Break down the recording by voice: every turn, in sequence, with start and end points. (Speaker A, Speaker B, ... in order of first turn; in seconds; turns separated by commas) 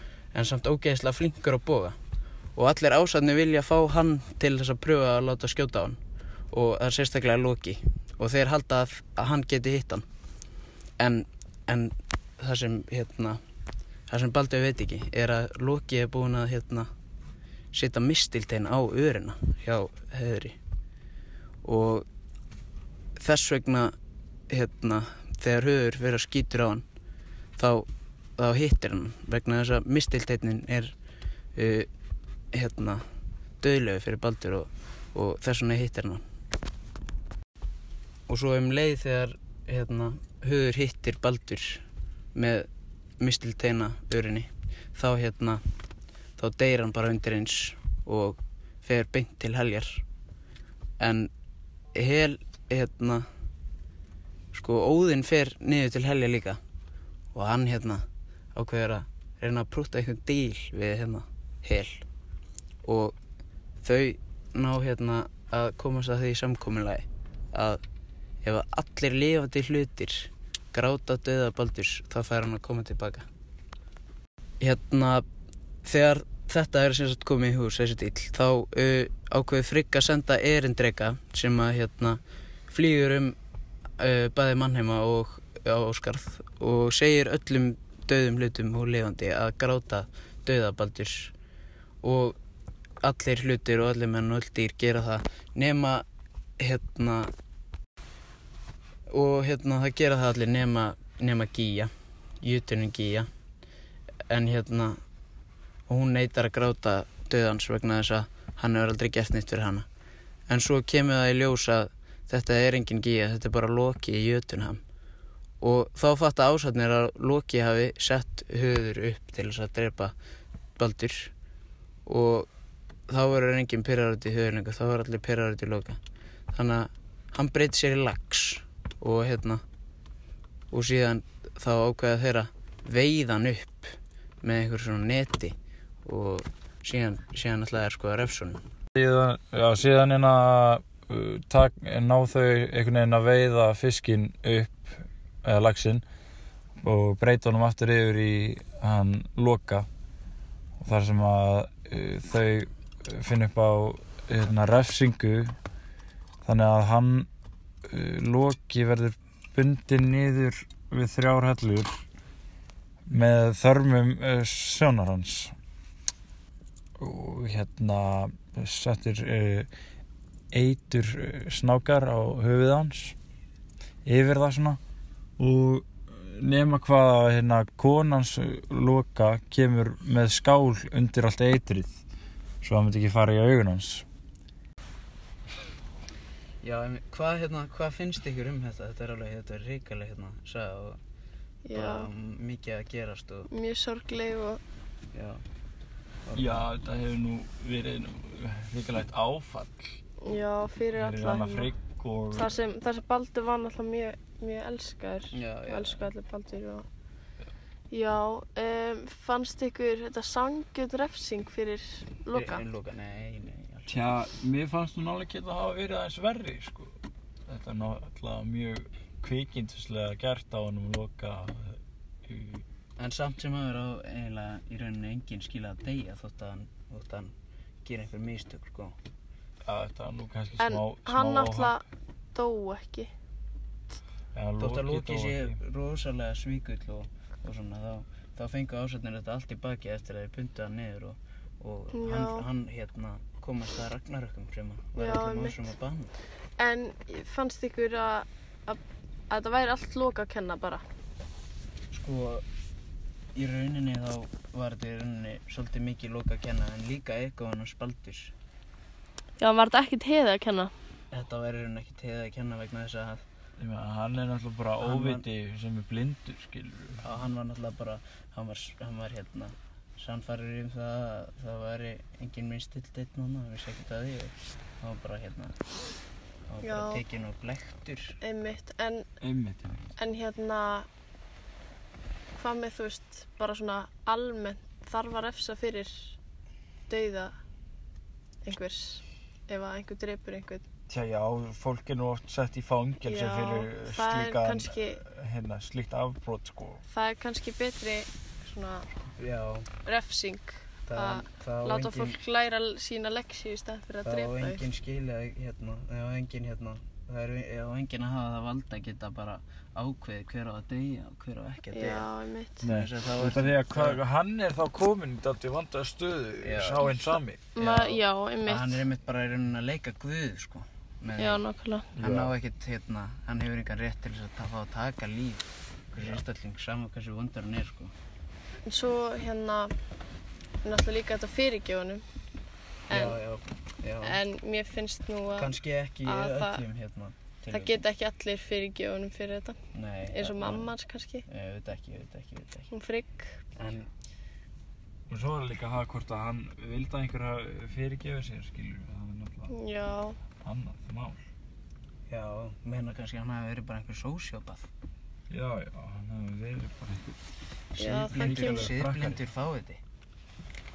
Speaker A: 0.3-2.0, Speaker A: 2.5-6.0, Speaker A: 6.5-10.1, Speaker A: 11.0-13.4, Speaker A: 14.1-16.9, Speaker A: 17.7-20.6, Speaker A: 21.6-22.1, Speaker A: 23.2-23.9, Speaker A: 24.5-26.8, Speaker A: 27.6-30.9, Speaker A: 31.5-31.9, Speaker A: 32.5-33.0, Speaker A: 33.6-36.2, Speaker A: 38.3-41.8, Speaker A: 42.3-42.7, Speaker A: 43.2-45.6, Speaker A: 46.4-50.0, Speaker A: 51.0-51.3, Speaker A: 51.9-53.2, Speaker A: 54.5-56.6, Speaker A: 57.3-62.0, Speaker A: 62.8-63.1, Speaker A: 63.8-67.8, Speaker A: 68.4-73.2, Speaker A: 74.6-75.2, Speaker A: 75.8-83.3, Speaker A: 84.0-91.3, Speaker A: 92.0-92.4, Speaker A: 93.0-96.0, Speaker A: 96.6-97.3, Speaker A: 99.1-103.3, Speaker A: 104.3-105.0, Speaker A: 105.9-109.8, Speaker A: 110.5-114.8, Speaker A: 115.6-120.1, Speaker A: 120.8-121.3, Speaker A: 122.0-122.5, Speaker A: 123.1-126.0, Speaker A: 126.5-129.6, Speaker A: 130.7-138.6, Speaker B: 138.9-146.0, Speaker B: 146.8-149.9, Speaker B: 150.8-155.5, Speaker B: 156.4-157.3, Speaker B: 157.8-162.0, Speaker B: 163.1-165.5, Speaker B: 167.0-169.7, Speaker B: 170.5-173.2, Speaker B: 174.0-174.8, Speaker B: 175.4-182.0, Speaker B: 182.6-184.0, Speaker A: 186.6-191.0, Speaker C: 191.6-192.1, Speaker A: 191.7-193.5, Speaker C: 193.5-194.6, Speaker A: 195.1-195.4, Speaker A: 196.2-196.6, Speaker B: 196.3-200.0, Speaker C: 200.2-201.7, Speaker B: 200.9-202.5, Speaker C: 202.3-206.9, Speaker A: 205.3-206.1, Speaker C: 207.9-212.6, Speaker A: 212.3-214.1, Speaker B: 213.9-222.6, Speaker A: 223.0-228.9, Speaker B: 229.6-231.8, Speaker C: 230.6-233.1, Speaker B: 234.3-235.6, Speaker A: 234.6-246.1, Speaker C: 241.9-242.4, Speaker C: 245.0-245.6, Speaker C: 246.6-250.8, Speaker A: 251.9-252.4, Speaker A: 253.3-258.3, Speaker C: 259.4-260.7, Speaker A: 261.1-263.2, Speaker B: 263.6-267.0, Speaker A: 264.8-265.3, Speaker A: 267.0-275.6, Speaker A: 276.5-278.2, Speaker C: 276.6-277.0, Speaker C: 278.2-279.1, Speaker B: 279.2-279.9, Speaker C: 280.0-280.9, Speaker C: 282.4-286.2, Speaker C: 286.9-287.3, Speaker C: 288.4-290.6, Speaker B: 290.9-296.8, Speaker C: 293.0-295.0, Speaker C: 296.9-298.9, Speaker A: 299.1-299.7, Speaker C: 299.8-304.6, Speaker A: 300.9-302.2, Speaker A: 304.0-312.1, Speaker C: 311.7-312.7, Speaker B: 312.6-317.5, Speaker A: 312.6-314.0, Speaker A: 316.4-316.9, Speaker C: 317.5-318.8, Speaker A: 317.6-321.4, Speaker C: 321.2-321.9, Speaker B: 321.9-322.3, Speaker A: 322.0-327.9, Speaker C: 328.6-329.7, Speaker C: 330.6-332.0, Speaker C: 332.9-333.1, Speaker A: 332.9-334.2, Speaker C: 334.0-336.6, Speaker A: 335.3-337.8, Speaker C: 337.5-339.6, Speaker A: 339.7-340.7, Speaker C: 340.1-341.2, Speaker A: 341.3-342.7, Speaker C: 342.7-343.4, Speaker A: 343.6-343.9, Speaker B: 345.1-349.5, Speaker C: 349.5-350.2, Speaker B: 350.4-351.2, Speaker A: 352.1-354.7, Speaker B: 355.3-357.2, Speaker A: 357.7-359.8, Speaker C: 357.8-358.7, Speaker B: 357.8-359.2